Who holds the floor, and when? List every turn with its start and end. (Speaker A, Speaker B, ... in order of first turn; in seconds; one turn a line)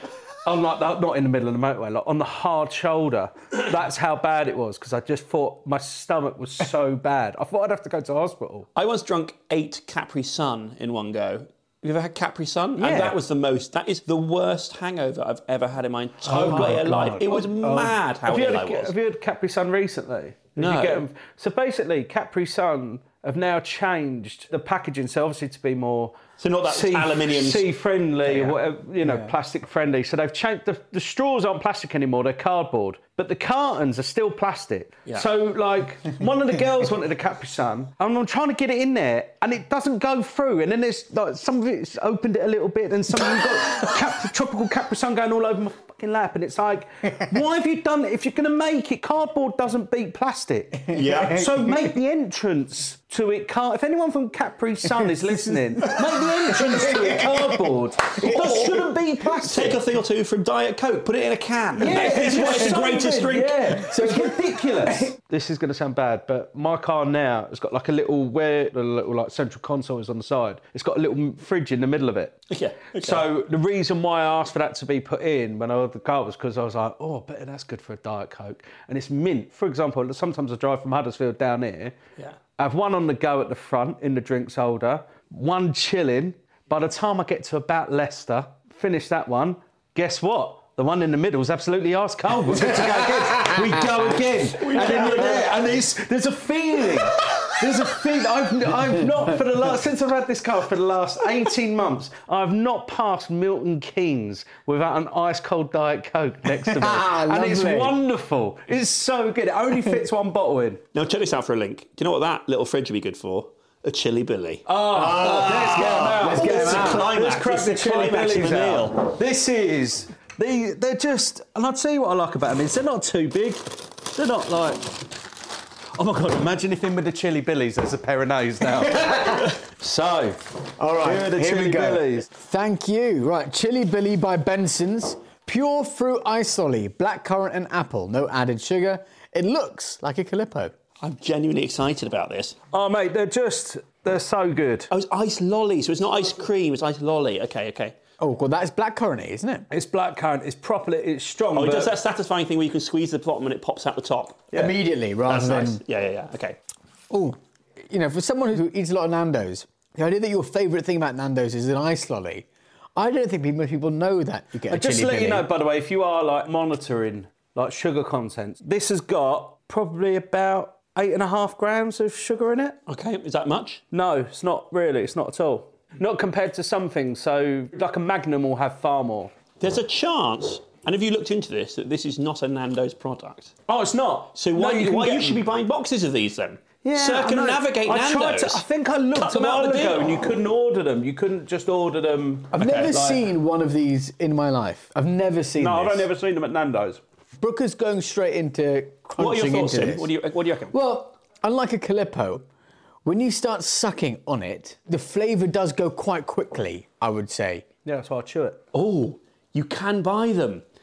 Speaker A: 0.4-8.7
Speaker B: 8.7-18.9
Speaker A: 12.8-13.2
Speaker C: 16.2-17.9
Speaker A: 16.3-16.8
Speaker A: 18.2-59.8
Speaker B: 20.6-21.1
Speaker B: 26.4-27.7
Speaker B: 28.2-28.6
Speaker C: 29.0-29.3
Speaker B: 50.9-51.5
Speaker C: 55.1-55.7
Speaker C: 56.6-58.9
Speaker B: 58.3-58.9
Speaker B: 59.4-63.8
Speaker A: 61.8-81.9
Speaker C: 61.8-62.8
Speaker C: 63.6-65.1
Speaker B: 72.5-73.2
Speaker A: 82.6-110.8
Speaker C: 92.8-93.6
Speaker B: 94.4-95.8
Speaker C: 106.6-108.0
Speaker B: 110.9-119.1
Speaker A: 114.7-125.0
Speaker C: 114.9-117.1
Speaker A: 126.0-130.4
Speaker C: 130.8-140.7
Speaker A: 131.0-132.3
Speaker B: 141.0-142.6
Speaker A: 142.7-144.9
Speaker B: 144.9-147.9
Speaker C: 148.2-149.7
Speaker A: 149.7-151.9
Speaker B: 151.5-156.6
Speaker C: 154.5-155.8
Speaker C: 157.1-165.5
Speaker A: 164.7-172.8
Speaker B: 172.9-173.8
Speaker A: 173.9-179.3
Speaker B: 179.6-183.6
Speaker A: 183.7-185.4
Speaker B: 184.3-188.6
Speaker A: 186.8-193.2
Speaker B: 189.1-190.4
Speaker B: 192.5-192.9
Speaker C: 192.6-196.1
Speaker A: 195.6-197.0
Speaker C: 197.4-200.1
Speaker B: 199.2-200.7
Speaker C: 200.7-202.4
Speaker C: 203.0-207.7
Speaker A: 207.8-208.7
Speaker B: 208.7-210.6